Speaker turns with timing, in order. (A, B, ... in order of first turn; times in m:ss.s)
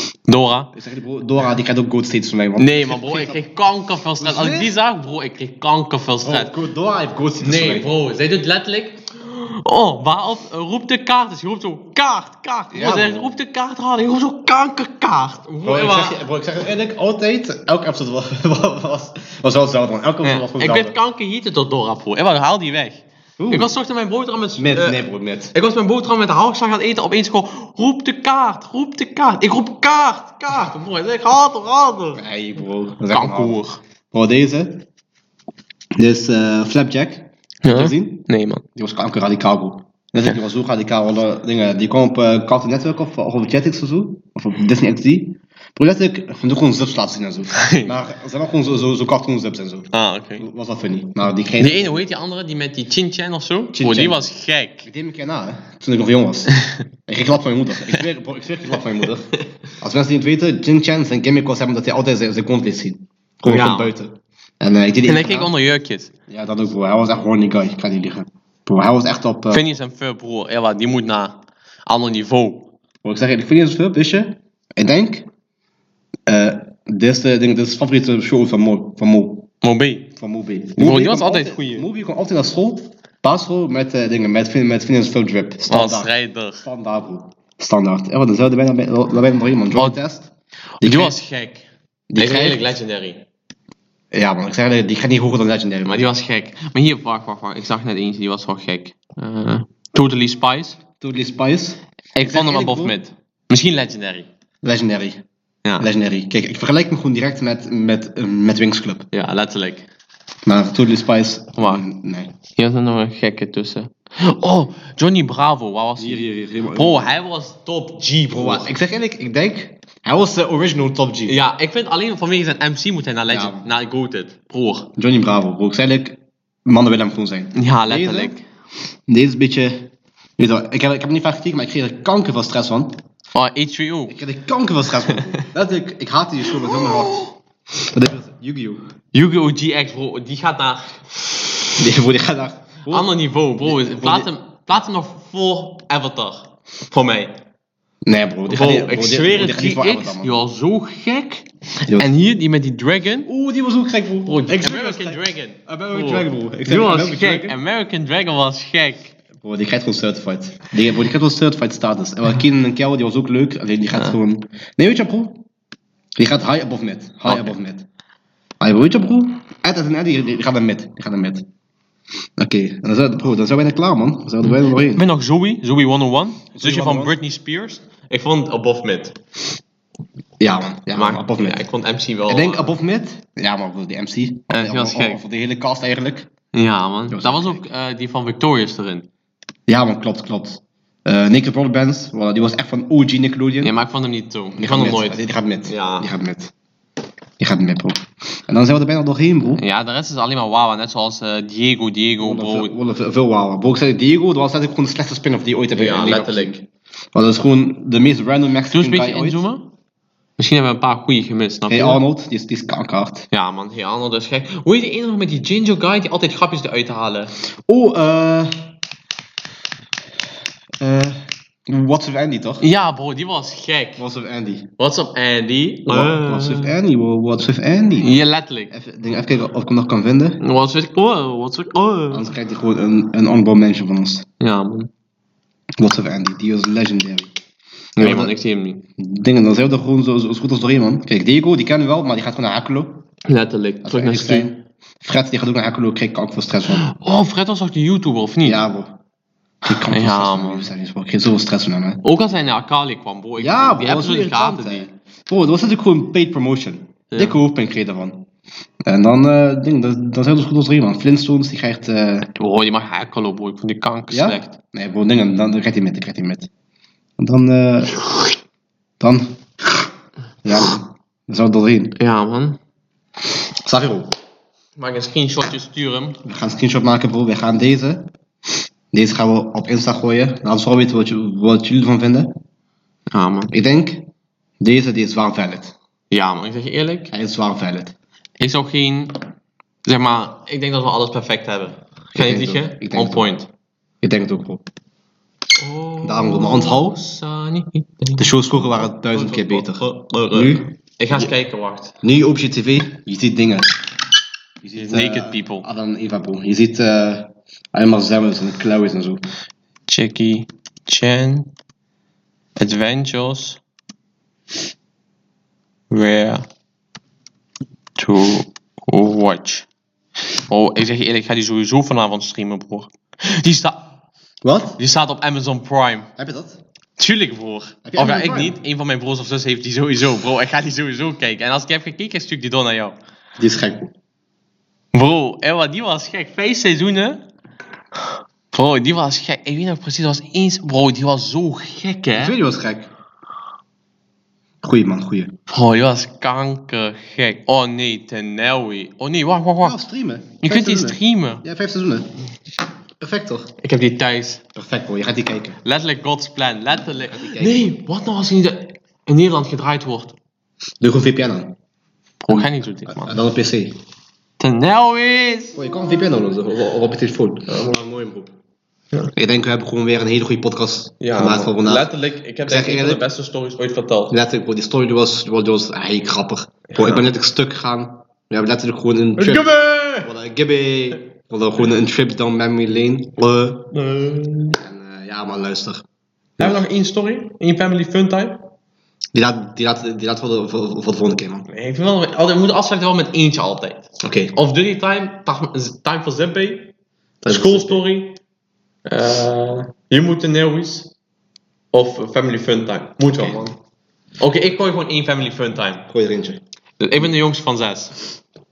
0:00.3-0:00.7 A
0:00.7-0:03.4 B
0:02.6-0:06.5 A
0:04.2-0:04.7 B
0:06.2-0:07.9 B
0:07.4-0:16.2 A
0:12.7-0:13.3 B
0:15.6-0:21.0 B
0:20.2-0:32.2 A
0:23.4-0:23.7 B
0:24.6-0:25.5 B
0:32.2-0:33.6 B
0:33.1-0:33.8 A
0:34.1-0:34.9 B
0:36.0-0:52.1 B
0:37.6-0:38.6 A
0:47.5-0:47.9 A
0:49.9-0:50.4 A
0:51.6-0:54.9 A
0:53.7-0:54.2 B
0:54.9-1:05.5 B
0:56.5-0:56.8 A
1:03.4-1:04.0 A
1:05.0-1:06.1 A
1:06.3-1:09.6 B
1:09.5-1:12.7 A
1:13.0-1:15.3 B
1:16.3-1:19.5 B
1:19.6-1:20.1 A
1:20.2-1:31.2 B
1:20.8-1:21.9 A
1:25.7-1:26.6 A
1:30.8-1:33.3 A
1:32.1-1:32.7 B
1:34.1-1:36.1 B
1:35.9-1:40.8 A
1:41.0-1:43.0 B
1:42.2-1:44.3 A
1:44.6-1:45.2 B
1:45.6-1:45.9 A
1:45.8-1:49.1 B
1:49.1-1:49.9 A
1:50.4-1:52.3 B
1:51.6-1:51.8 A
1:52.6-1:58.7 A
1:56.0-1:57.1 B
1:58.3-2:01.4 B
2:01.3-2:04.9 A
2:03.3-2:03.7 B
2:05.0-2:08.3 B
2:07.5-2:08.4 A
2:09.1-2:13.0 B
2:13.3-2:14.2 A
2:14.1-2:18.9 B
2:15.1-2:15.4 A
2:16.7-2:17.3 A
2:19.1-2:21.6 A
2:21.8-2:24.3 B
2:22.9-2:27.4 A
2:28.0-2:30.4 B
2:28.5-2:33.3 A
2:33.3-2:37.6 B
2:34.3-2:39.2 A
2:39.4-2:45.4 B
2:46.2-2:47.9 B
2:47.3-2:47.5 A
2:48.6-2:51.5 B
2:52.4-2:55.0 B
2:54.8-2:59.2 A
2:56.5-2:57.2 B
3:00.4-3:01.7 B
3:00.9-3:02.7 A
3:02.3-3:06.3 B
3:04.5-3:05.2 A
3:06.5-3:09.1 A
3:07.1-3:07.6 B
3:09.7-3:13.8 B
3:13.6-3:16.1 A
3:14.6-3:16.5 B
3:17.4-3:19.6 B
3:19.6-3:22.7 A
3:22.2-3:29.4 B
3:25.8-3:26.6 A
3:28.7-3:29.7 A
3:30.4-3:32.0 A
3:31.7-3:33.3 B
3:33.3-3:37.3 A
3:37.7-3:38.7 B
3:40.8-3:42.6 B
3:42.6-3:44.0 A
3:44.0-3:44.7 B
3:44.8-3:46.8 A
3:45.9-3:48.2 B
3:48.0-3:48.7 A
3:48.7-3:50.4 B
3:50.4-3:52.3 A
3:52.1-3:54.2 B
3:54.4-3:54.9 A
3:55.8-3:57.3 B
3:58.0-3:58.9 A
3:58.0-3:58.4 B
3:59.0-4:03.1 B
4:03.3-4:04.5 A
4:03.8-4:06.8 B
4:06.7-4:08.7 A
4:08.4-4:09.0 B
4:09.6-4:12.0 B
4:09.7-4:10.7 A
4:12.0-4:14.9 A
4:13.4-4:18.3 B
4:17.1-4:17.4 A
4:18.8-4:22.3 B
4:22.4-4:24.6 A
4:24.1-4:26.5 B
4:27.2-4:28.0 B
4:29.0-4:29.4 B
4:30.4-4:32.0 B
4:32.0-4:32.6 A
4:33.6-4:34.1 B
4:34.8-4:36.2 A
4:36.2-4:38.1 B
4:38.9-4:42.4 B
4:43.1-4:43.5 A
4:43.5-4:44.1 B
4:44.6-4:45.8 B
4:46.1-4:47.1 A
4:47.1-4:47.9 B
4:48.4-4:49.2 A
4:49.8-4:53.5 A
4:52.2-4:53.4 B
4:54.0-4:54.6 B
4:55.6-5:02.0 A
4:56.0-4:57.0 B
4:58.2-5:01.3 B
5:02.0-5:03.8 B
5:04.6-5:09.2 B
5:04.8-5:05.7 A
5:09.9-5:11.5 A
5:12.6-5:13.6 A
5:15.9-5:16.5 A
5:18.0-5:19.7 A
5:20.5-5:23.9 A
5:24.4-5:24.8 B
5:24.8-5:26.1 A
5:26.2-5:26.6 B
5:27.0-5:33.0 A
5:27.9-5:28.6 B
5:33.4-5:33.9 B
5:34.9-5:37.2 A
5:38.5-5:42.4 A
5:42.2-5:42.9 B
5:44.6-5:45.4 B
5:45.5-5:49.8 A
5:49.6-5:52.1 B
5:50.4-5:51.4 A
5:53.0-5:53.5 B
5:53.6-5:54.4 A
5:54.6-5:55.6 B
5:55.6-6:00.2 A
5:56.9-5:57.7 B
6:00.8-6:01.6 B
6:02.2-6:03.2 A
6:02.3-6:03.8 B
6:04.4-6:05.6 A
6:05.6-6:08.3 B
6:07.5-6:07.8 A
6:09.1-6:11.9 B
6:11.0-6:14.2 A
6:12.5-6:13.1 B
6:14.1-6:23.7 B
6:16.7-6:17.1 A
6:19.2-6:20.1 A
6:23.7-6:24.6 A
6:24.6-6:25.8 B
6:26.4-6:26.6 B
6:26.4-6:28.4 A
6:29.1-6:31.5 B
6:31.5-6:36.7 A
6:34.0-6:34.4 B
6:37.2-6:37.8 B
6:37.3-6:38.2 A
6:38.9-6:40.9 A
6:41.7-6:43.6 A
6:44.2-6:45.9 A
6:45.9-6:46.4 B
6:46.8-6:48.0 A